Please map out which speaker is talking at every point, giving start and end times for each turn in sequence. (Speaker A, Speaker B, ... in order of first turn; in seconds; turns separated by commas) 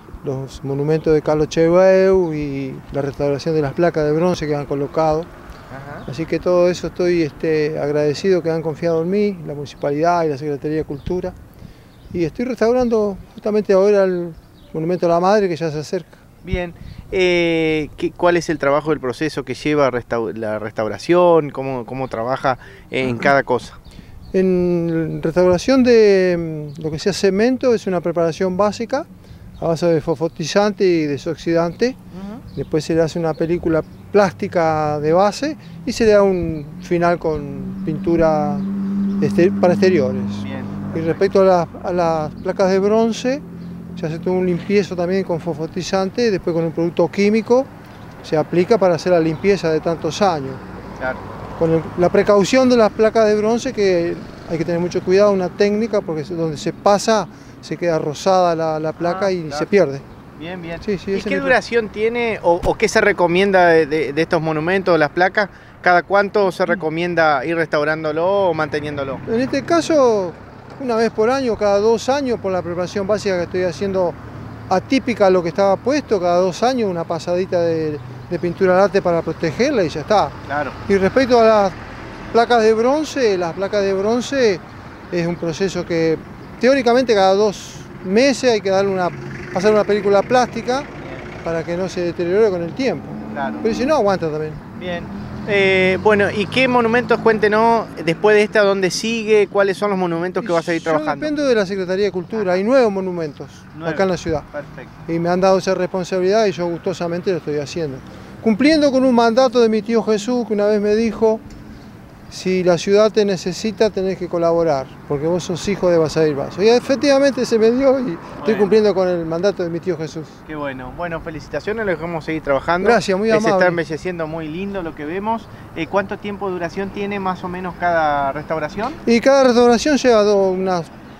Speaker A: 0.2-5.3, Speaker B: 5.7-6.1, Speaker A: 6.1-11.3, Speaker A: 12.1-16.2, Speaker B: 16.4-23.8, Speaker A: 24.3-29.1, Speaker A: 29.6-32.0, Speaker B: 32.1-32.4, Speaker A: 32.5-38.7, Speaker A: 39.2-43.4, Speaker B: 40.4-41.2, Speaker A: 44.0-47.7, Speaker A: 48.2-50.6, Speaker B: 51.0-51.2, Speaker A: 51.6-60.0, Speaker B: 59.0-59.7, Speaker B: 60.4-69.2, Speaker A: 60.8-61.6, Speaker A: 69.3-74.2, Speaker A: 74.7-81.8, Speaker B: 80.5-80.8, Speaker A: 82.3-90.9, Speaker A: 91.4-94.6, Speaker B: 93.3-93.7, Speaker B: 94.8-101.3, Speaker A: 100.4-104.5, Speaker B: 102.3-102.6, Speaker B: 103.8-104.9, Speaker A: 105.1-111.4, Speaker A: 112.3-120.4, Speaker B: 118.4-118.8, Speaker B: 120.5-129.0, Speaker A: 122.8-123.8, Speaker A: 129.0-130.9